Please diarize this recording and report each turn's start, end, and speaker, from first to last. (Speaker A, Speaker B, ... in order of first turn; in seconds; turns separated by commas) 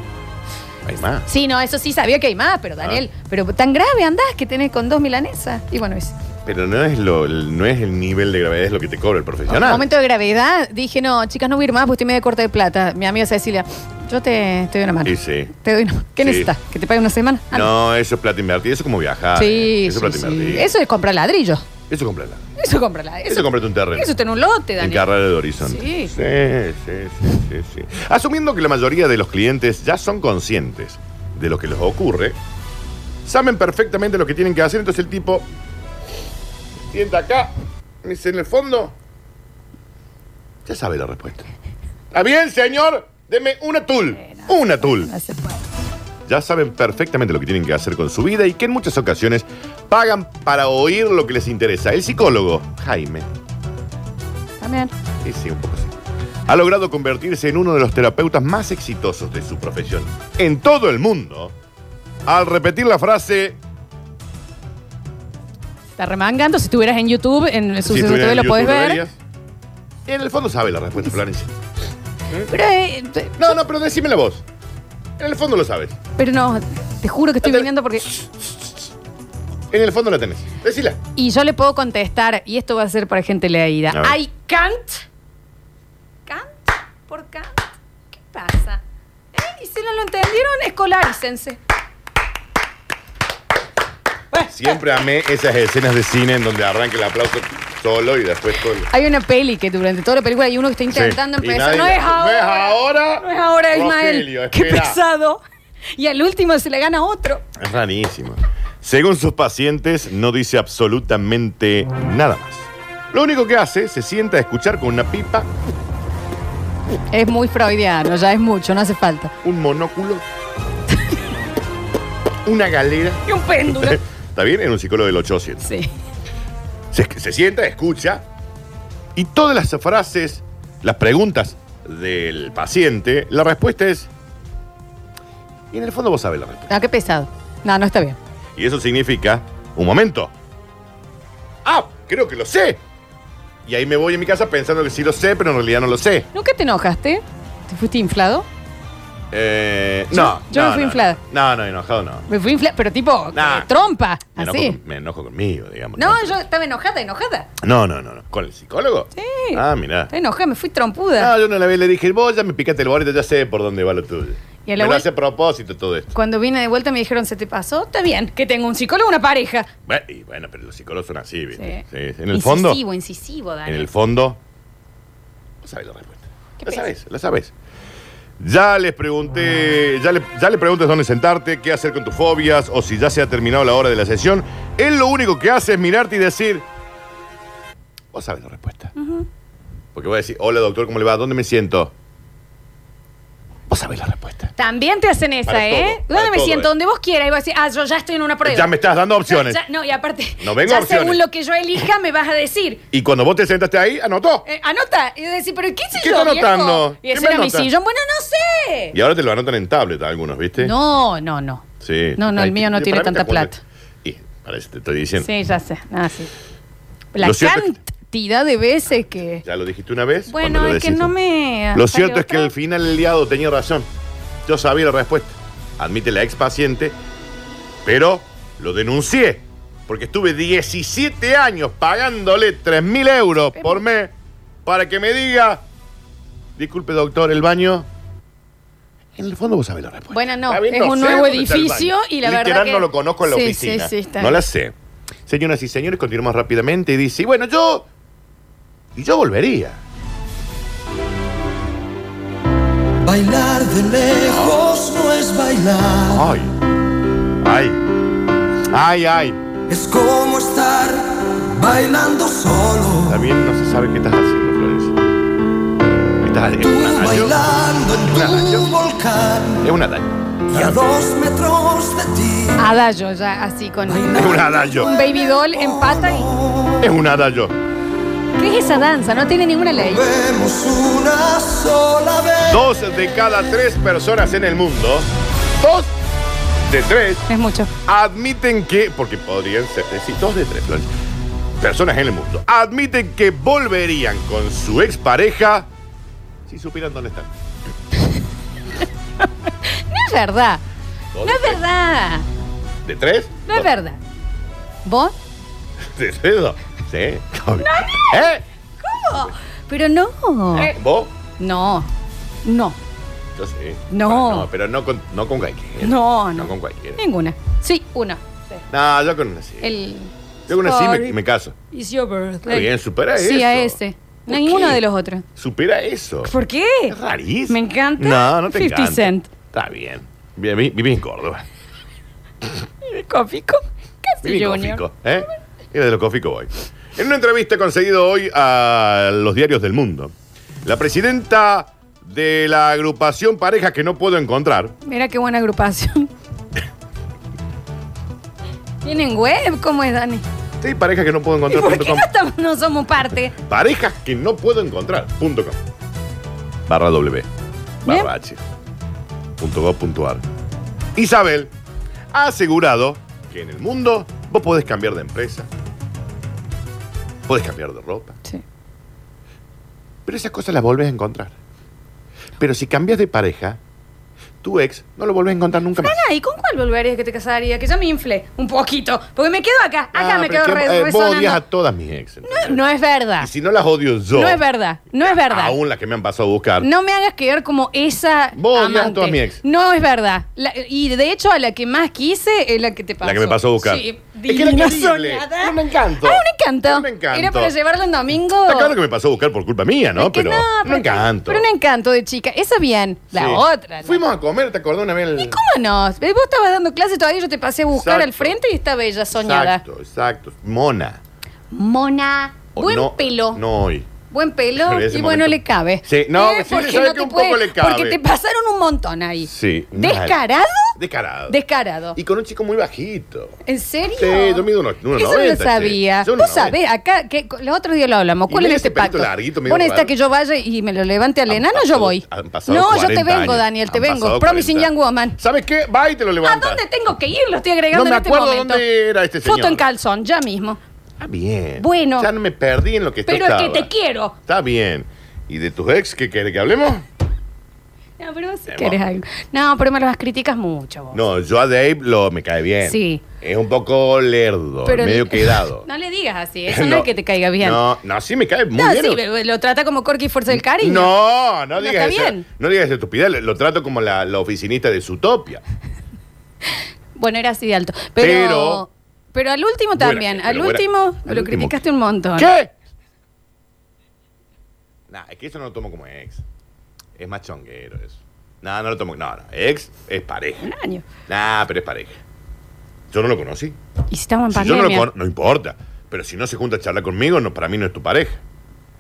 Speaker A: 0.8-1.3, Speaker B: 1.3-6.2, Speaker A: 6.5-9.8, Speaker B: 9.5-17.7, Speaker A: 15.0-15.5, Speaker A: 16.2-16.5, Speaker A: 17.5-20.7, Speaker B: 19.4-21.7, Speaker A: 21.9-22.5, Speaker B: 22.6-25.1, Speaker A: 23.3-24.1, Speaker A: 24.8-32.4, Speaker B: 25.6-26.1, Speaker A: 33.2-35.5, Speaker A: 36.9-39.0, Speaker A: 40.7-41.5, Speaker A: 42.1-45.1, Speaker B: 44.2-45.7, Speaker A: 46.3-53.3, Speaker B: 54.6-54.9, Speaker A: 55.2-56.0, Speaker A: 56.5-61.5, Speaker A: 62.3-63.6, Speaker B: 66.0-69.0, Speaker A: 67.9-69.2, Speaker A: 70.1-71.5, Speaker B: 72.5-73.6, Speaker A: 73.4-74.4, Speaker A: 75.2-76.0, Speaker B: 76.2-78.1, Speaker A: 77.4-78.5, Speaker A: 79.7-81.0, Speaker B: 81.2-85.0, Speaker A: 83.9-84.2, Speaker B: 86.3-88.8, Speaker B: 89.3-91.6, Speaker B: 94.3-94.8, Speaker A: 94.5-98.9, Speaker B: 98.9-105.4, Speaker A: 100.9-105.0, Speaker B: 106.0-107.5, Speaker A: 107.6-115.5, Speaker B: 117.1-119.3, Speaker A: 119.4-120.2, Speaker A: 122.5-125.7, Speaker B: 123.2-124.0, Speaker B: 125.6-125.9, Speaker A: 126.9-128.2, Speaker A: 129.2-134.1, Speaker A: 135.7-136.7, Speaker B: 136.7-138.2, Speaker A: 138.6-140.3, Speaker A: 141.7-142.8, Speaker A: 143.7-146.3, Speaker B: 146.3-148.5, Speaker A: 149.3-152.3, Speaker B: 150.1-151.2, Speaker B: 152.3-154.8, Speaker A: 153.3-153.7, Speaker A: 154.4-156.4, Speaker B: 156.0-157.5, Speaker A: 157.6-160.1, Speaker B: 159.2-161.3, Speaker A: 161.2-166.2, Speaker B: 164.7-165.1, Speaker B: 166.1-169.7, Speaker A: 169.9-172.8, Speaker B: 171.6-173.9, Speaker A: 173.7-174.4, Speaker A: 175.6-177.5, Speaker B: 176.6-176.9, Speaker A: 178.4-186.7, Speaker A: 188.1-188.9, Speaker B: 189.0-189.3, Speaker A: 189.9-191.9, Speaker A: 193.7-194.5, Speaker B: 194.6-198.7, Speaker A: 195.5-196.7, Speaker A: 198.4-199.6, Speaker B: 199.2-202.8, Speaker A: 200.4-201.2, Speaker A: 202.9-204.4, Speaker B: 204.4-209.0, Speaker A: 205.9-207.7, Speaker A: 208.9-210.7, Speaker B: 210.6-211.7, Speaker A: 211.8-215.3, Speaker B: 212.2-213.6, Speaker B: 215.2-216.3, Speaker B: 217.1-219.4, Speaker A: 217.2-217.8, Speaker A: 219.4-221.1, Speaker B: 220.3-222.5, Speaker A: 221.7-223.9, Speaker A: 224.5-227.0, Speaker A: 227.8-234.1, Speaker A: 234.7-235.6, Speaker A: 236.6-237.9, Speaker A: 239.2-244.8, Speaker B: 240.1-244.4, Speaker A: 245.3-247.9, Speaker A: 248.9-249.8, Speaker C: 253.0-256.2, Speaker A: 254.3-254.6, Speaker A: 256.1-256.6, Speaker A: 257.4-257.9, Speaker A: 258.6-259.4, Speaker C: 259.7-263.2, Speaker A: 263.1-265.1, Speaker A: 266.2-268.7, Speaker C: 266.6-269.7, Speaker A: 269.6-270.8, Speaker C: 270.5-272.7, Speaker B: 272.6-276.3, Speaker C: 273.9-276.9, Speaker A: 274.1-274.9, Speaker A: 276.8-277.6, Speaker B: 278.4-280.1, Speaker C: 279.8-282.6, Speaker A: 282.5-285.1, Speaker A: 285.6-285.9, Speaker A: 286.6-287.3, Speaker B: 287.3-287.7, Speaker A: 287.9-290.9, Speaker A: 291.6-295.7, Speaker A: 296.5-297.3, Speaker B: 299.6-300.6, Speaker A: 301.1-301.6, Speaker B: 301.2-302.3, Speaker A: 302.8-303.7, Speaker B: 303.5-304.0, Speaker B: 304.9-305.1, Speaker A: 305.8-308.4, Speaker B: 307.6-310.8, Speaker A: 310.5-311.1, Speaker B: 311.4-311.9, Speaker B: 312.4-312.8, Speaker A: 313.4-317.0, Speaker B: 313.9-314.5, Speaker B: 315.8-318.6, Speaker A: 318.7-319.7, Speaker B: 319.6-321.2, Speaker A: 320.5-321.6, Speaker B: 321.7-325.3, Speaker A: 322.5-324.8, Speaker A: 325.4-326.3, Speaker B: 326.2-327.0, Speaker A: 326.9-331.4, Speaker B: 327.5-329.3, Speaker B: 332.8-334.9, Speaker A: 334.2-344.8, Speaker B: 344.8-346.1, Speaker B: 348.8-350.2, Speaker A: 350.6-352.1, Speaker B: 351.5-353.4, Speaker A: 353.4-355.6, Speaker A: 356.7-357.3, Speaker A: 357.8-358.4, Speaker A: 359.4-360.2, Speaker A: 361.0-361.5, Speaker A: 362.1-365.5, Speaker A: 367.3-368.2, Speaker A: 370.1-371.4, Speaker A: 372.4-373.6, Speaker A: 374.4-376.0, Speaker B: 375.8-381.4, Speaker A: 379.9-382.6, Speaker B: 382.2-383.3, Speaker A: 383.2-384.4, Speaker B: 384.1-385.6, Speaker A: 385.0-386.7, Speaker B: 386.6-398.8, Speaker A: 388.4-389.4, Speaker A: 393.0-397.5, Speaker A: 398.5-401.5, Speaker B: 399.9-404.0, Speaker A: 403.1-405.4, Speaker B: 405.2-409.6, Speaker A: 407.7-408.4, Speaker A: 409.1-411.0, Speaker B: 411.5-413.4, Speaker A: 412.6-413.9, Speaker B: 414.1-420.8, Speaker A: 414.6-418.0, Speaker A: 419.3-420.2, Speaker A: 420.8-421.4, Speaker B: 421.3-422.0, Speaker A: 421.9-423.4, Speaker B: 423.4-435.2, Speaker A: 424.0-426.6, Speaker A: 428.3-429.9, Speaker A: 431.3-436.6, Speaker B: 436.2-438.6, Speaker A: 437.7-439.6, Speaker B: 439.2-440.6, Speaker A: 441.0-443.7, Speaker B: 441.6-442.1, Speaker B: 443.1-444.2, Speaker A: 444.3-446.9, Speaker B: 448.0-451.0, Speaker A: 448.5-448.8, Speaker A: 450.9-455.7, Speaker B: 452.6-453.0, Speaker B: 454.6-457.6, Speaker A: 456.5-456.9, Speaker A: 457.4-459.0, Speaker B: 458.6-460.9, Speaker A: 460.3-465.4, Speaker B: 461.6-462.3, Speaker B: 467.0-472.3, Speaker A: 468.0-468.6, Speaker A: 469.8-471.6, Speaker A: 472.2-472.5, Speaker A: 474.9-476.2, Speaker A: 477.0-480.5, Speaker B: 480.4-480.8, Speaker A: 481.1-482.0, Speaker A: 482.9-483.6, Speaker B: 483.9-484.9, Speaker A: 484.3-488.2